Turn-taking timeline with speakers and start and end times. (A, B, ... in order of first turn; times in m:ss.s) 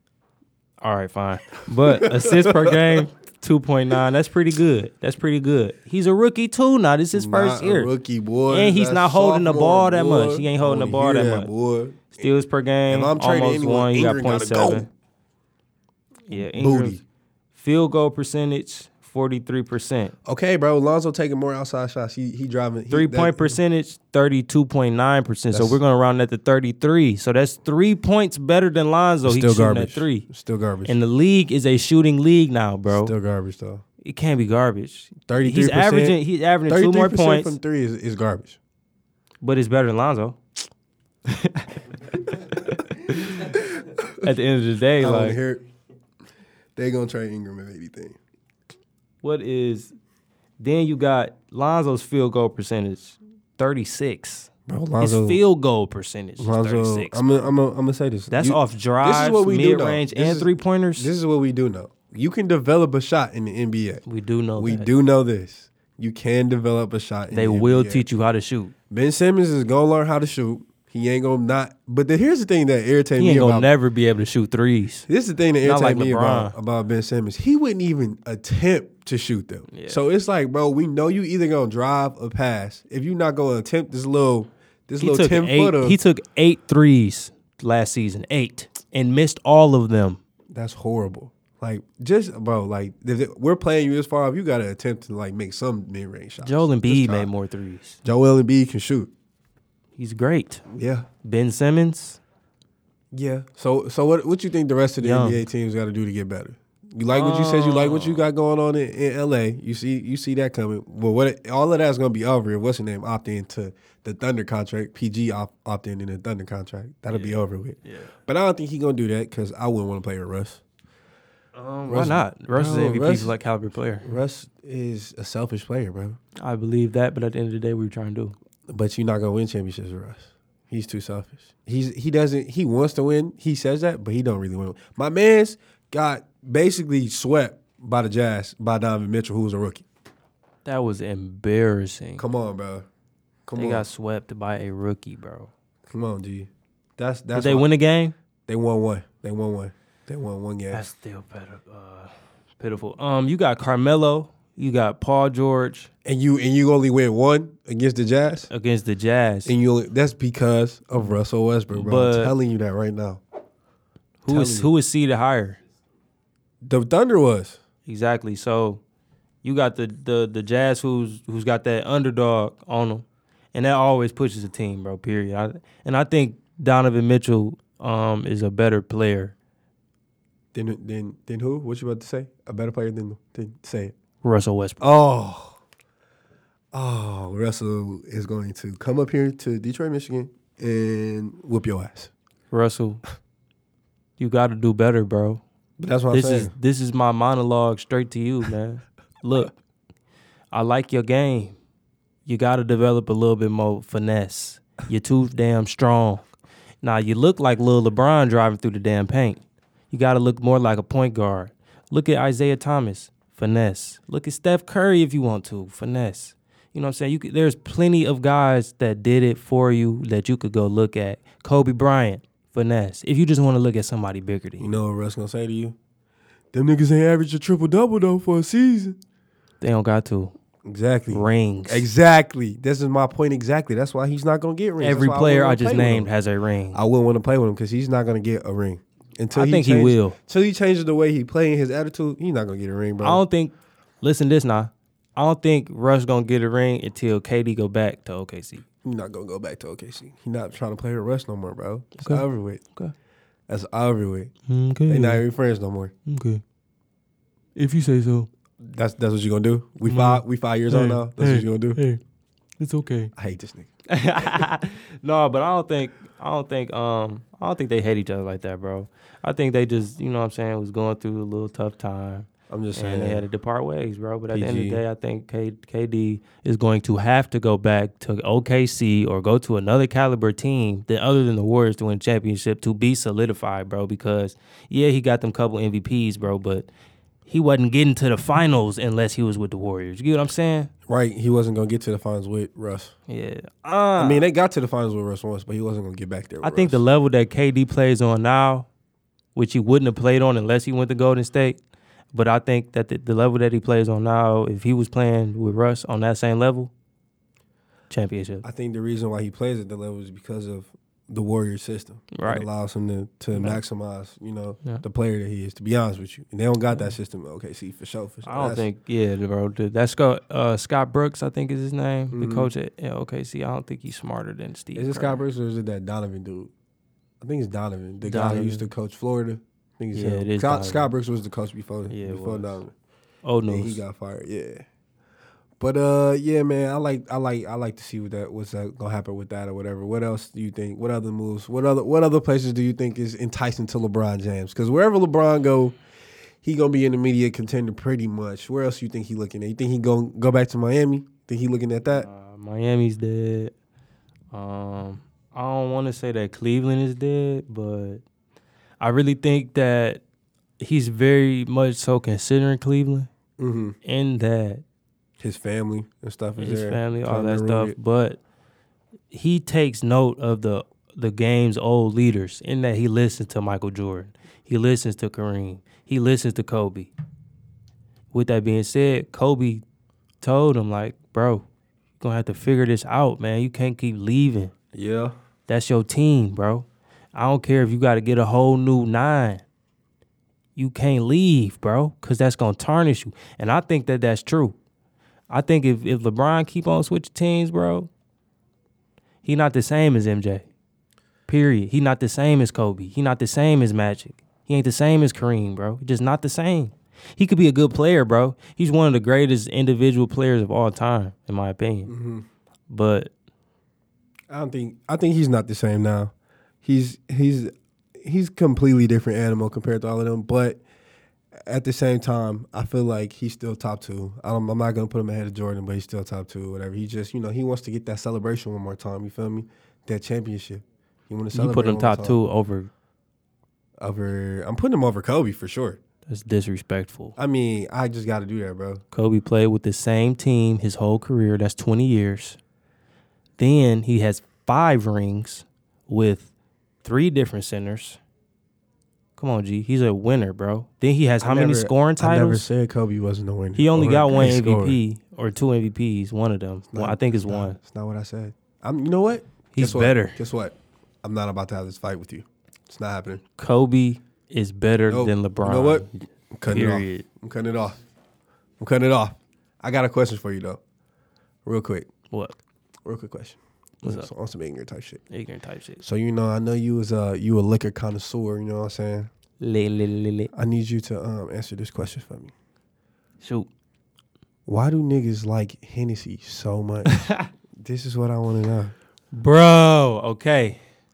0:00.8-0:07.9 A
0:01.8-0:03.0 B
0:07.1-0:12.3 B
0:08.5-0:11.5 A
0:12.1-0:14.9 A
0:12.9-0:14.9 B
0:16.3-0:17.0 A
0:16.4-0:17.0 B
0:17.5-0:20.1 A
0:20.2-0:23.6 B
0:22.9-0:30.2 A
0:25.5-0:25.8 B
0:29.2-0:31.0 B
0:30.8-0:33.1 A
0:32.9-0:33.8 B
0:34.0-0:37.6 A
0:35.2-0:38.6 B
0:39.4-0:40.4 A
0:41.2-0:43.6 A
0:43.4-0:44.2 B
0:44.2-0:45.4 A
0:45.0-0:45.6 B
0:46.8-0:48.2 B
0:49.2-0:49.9 A
0:50.6-0:54.5 A
0:54.7-0:55.4 B
0:55.0-0:57.5 A
0:56.4-1:04.0 B
0:58.3-1:01.1 A
1:04.1-1:04.9 A
1:04.6-1:08.0 B
1:07.3-1:08.7 A
1:08.9-1:13.7 B
1:13.2-1:15.1 A
1:15.1-1:26.0 B
1:15.6-1:16.5 A
1:19.7-1:20.0 A
1:25.0-1:30.2 A
1:30.5-1:37.3 B
1:36.4-1:38.0 A
1:38.0-1:39.1 B
1:40.0-1:40.6 A
1:40.7-1:41.1 B
1:41.2-1:42.2 A
1:43.1-2:00.6 B
1:45.0-1:45.4 A
1:47.1-1:48.2 A
2:01.5-2:04.1 A
2:01.9-2:03.3 B
2:04.0-2:06.2 B
2:06.4-2:08.3 A
2:08.7-2:19.8 B
2:20.6-2:22.2 A
2:22.2-2:22.8 B
2:23.4-2:23.8 B
2:23.6-2:25.5 A
2:25.9-2:27.7 B
2:27.3-2:28.1 A
2:28.5-2:30.8 B
2:30.7-2:35.9 A
2:36.0-2:38.5 B
2:38.5-2:39.5 A
2:39.4-2:43.2 B
2:41.7-2:42.3 A
2:44.2-2:45.6 A
2:44.2-2:44.7 B
2:46.6-2:47.6 B
2:47.8-2:48.8 A
2:49.4-2:59.3 A
3:00.5-3:03.9 B
3:04.2-3:04.9 A
3:04.8-3:05.6 B
3:06.7-3:12.1 B
3:12.5-3:13.0 A
3:14.2-3:15.4 A
3:15.8-3:16.5 B
3:16.1-3:19.5 A
3:20.5-3:21.5 A
3:22.2-3:26.2 A
3:26.8-3:44.7 A
3:44.6-3:45.8 B
3:46.5-3:49.0 B
3:49.6-3:50.3 A
3:50.6-3:56.1 B
3:51.1-3:51.9 A
3:54.8-3:56.8 A
3:56.7-4:03.2 B
3:59.3-4:00.2 A
4:03.0-4:08.6 A
4:08.8-4:12.6 B
4:12.0-4:12.2 A
4:13.5-4:14.3 B
4:14.5-4:15.2 A
4:14.9-4:15.9 B
4:16.0-4:16.4 A
4:17.6-4:18.3 A
4:18.6-4:21.8 B
4:19.8-4:22.0 A
4:22.6-4:23.1 A
4:23.2-4:23.7 B
4:23.9-4:46.7 A
4:32.5-4:33.2 B
4:34.3-4:34.8 B
4:47.3-4:50.7 A
4:50.9-4:52.9 B
4:53.1-4:54.2 A
4:54.0-4:56.8 B
4:56.4-4:58.7 A
4:59.3-5:01.6 A
5:02.1-5:06.7 A
5:07.9-5:08.4 A
5:08.4-5:18.7 B
5:12.1-5:12.5 A
5:13.3-5:13.6 A
5:18.2-5:25.2 A
5:22.1-5:22.5 B
5:24.7-5:26.5 B
5:27.2-5:32.7 B
5:28.0-5:28.7 A
5:29.9-5:30.9 A
5:31.9-5:32.6 A
5:33.2-5:33.8 A
5:33.5-5:34.6 B
5:35.6-5:45.8 B
5:46.4-5:52.1 B
5:51.9-5:53.5 A
5:54.3-5:58.0 A
5:58.8-6:00.0 A
6:00.6-6:03.1 A
6:03.4-6:03.8 B
6:03.8-6:04.6 A
6:05.2-6:07.8 B
6:06.4-6:08.2 A
6:09.1-6:16.9 A
6:18.1-6:19.6 A
6:20.2-6:21.4 A
6:22.0-6:24.5 A
6:24.7-6:25.1 B
6:25.5-6:29.4 A
6:30.6-6:34.6 A
6:35.3-6:37.9 A
6:39.2-6:40.4 A
6:41.3-6:51.9 A
6:51.9-6:52.2 B
6:52.7-6:53.1 A
6:54.3-7:00.6 B
7:01.4-7:12.2 B
7:11.3-7:12.7 A
7:13.8-7:15.8 B
7:16.1-7:17.2 A
7:17.2-7:18.8 B
7:18.9-7:22.4 A
7:23.4-7:26.3 A
7:26.8-7:28.0 A
7:29.2-7:32.5 A
7:31.2-7:34.8 B
7:33.6-7:37.6 A
7:36.7-7:43.2 B
7:39.5-7:40.2 A
7:43.4-7:45.9 A
7:44.9-7:47.8 B
7:46.5-7:47.0 A
7:48.6-7:50.6 B
7:51.4-7:51.9 B
7:52.8-7:55.0 B
7:53.8-7:54.1 A
7:55.1-7:55.8 A
7:55.8-7:59.1 B
7:59.4-8:00.3 A
8:00.3-8:02.3 B
8:03.2-8:03.5 A
8:04.5-8:07.0 B
8:06.9-8:07.3 A
8:07.6-8:08.7 B
8:09.1-8:10.6 A